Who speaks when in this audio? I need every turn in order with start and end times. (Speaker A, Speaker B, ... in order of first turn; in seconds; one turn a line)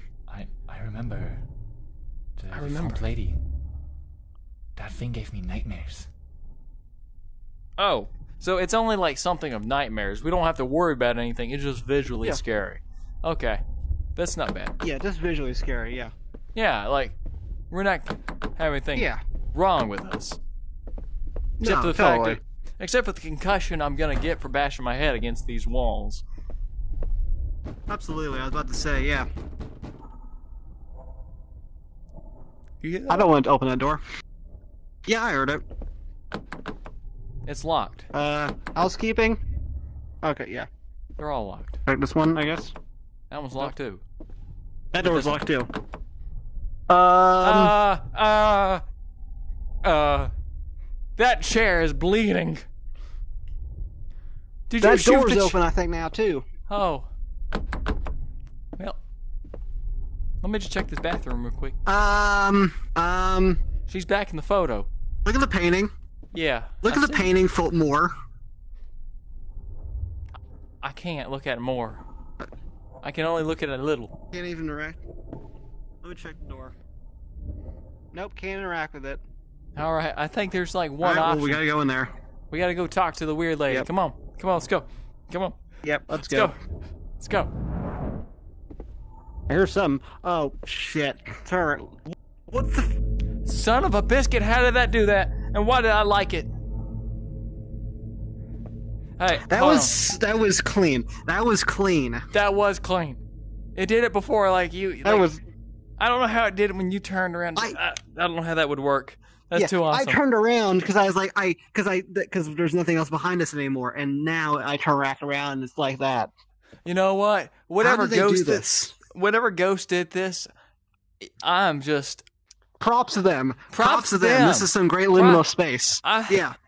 Speaker A: 0.3-1.4
Speaker A: 2.4-3.4
Speaker B: 2.5-3.0
Speaker A: 4.8-6.1
Speaker B: 7.8-13.6
Speaker B: 14.2-14.8
Speaker C: 14.8-16.1
Speaker B: 16.6-17.2
Speaker B: 17.7-20.4
Speaker C: 19.0-19.2
Speaker C: 21.6-22.4
Speaker B: 21.6-26.2
Speaker C: 27.9-29.3
Speaker B: 32.8-33.3
Speaker C: 33.1-34.0
Speaker C: 35.1-35.6
Speaker B: 37.5-38.1
Speaker C: 38.1-39.4
Speaker C: 40.2-40.7
Speaker B: 41.2-41.8
Speaker C: 41.9-42.7
Speaker B: 43.3-44.0
Speaker C: 44.9-45.7
Speaker B: 45.0-45.4
Speaker C: 46.9-47.7
Speaker B: 47.4-48.8
Speaker B: 49.8-50.3
Speaker B: 51.2-52.6
Speaker B: 54.7-55.6
Speaker C: 54.8-56.5
Speaker B: 56.7-57.1
Speaker B: 60.4-61.8
Speaker C: 61.9-63.6
Speaker B: 63.9-64.9
Speaker C: 65.2-65.9
Speaker B: 66.3-67.3
Speaker C: 66.8-68.1
Speaker B: 70.8-72.0
Speaker B: 73.0-74.1
Speaker C: 74.3-75.0
Speaker C: 76.0-76.8
Speaker C: 78.1-79.2
Speaker B: 79.8-81.6
Speaker C: 81.0-82.1
Speaker B: 82.5-85.6
Speaker C: 85.8-86.5
Speaker B: 86.1-86.6
Speaker B: 87.2-87.5
Speaker C: 89.5-93.0
Speaker B: 93.5-96.5
Speaker B: 99.2-99.9
Speaker C: 99.5-102.2
Speaker B: 102.3-103.2
Speaker B: 103.8-105.3
Speaker C: 105.0-105.4
Speaker B: 106.0-110.2
Speaker C: 109.5-116.3
Speaker B: 116.8-120.5
Speaker C: 117.8-119.0
Speaker B: 121.2-122.2
Speaker C: 122.8-126.6
Speaker B: 123.7-125.5
Speaker B: 126.0-126.5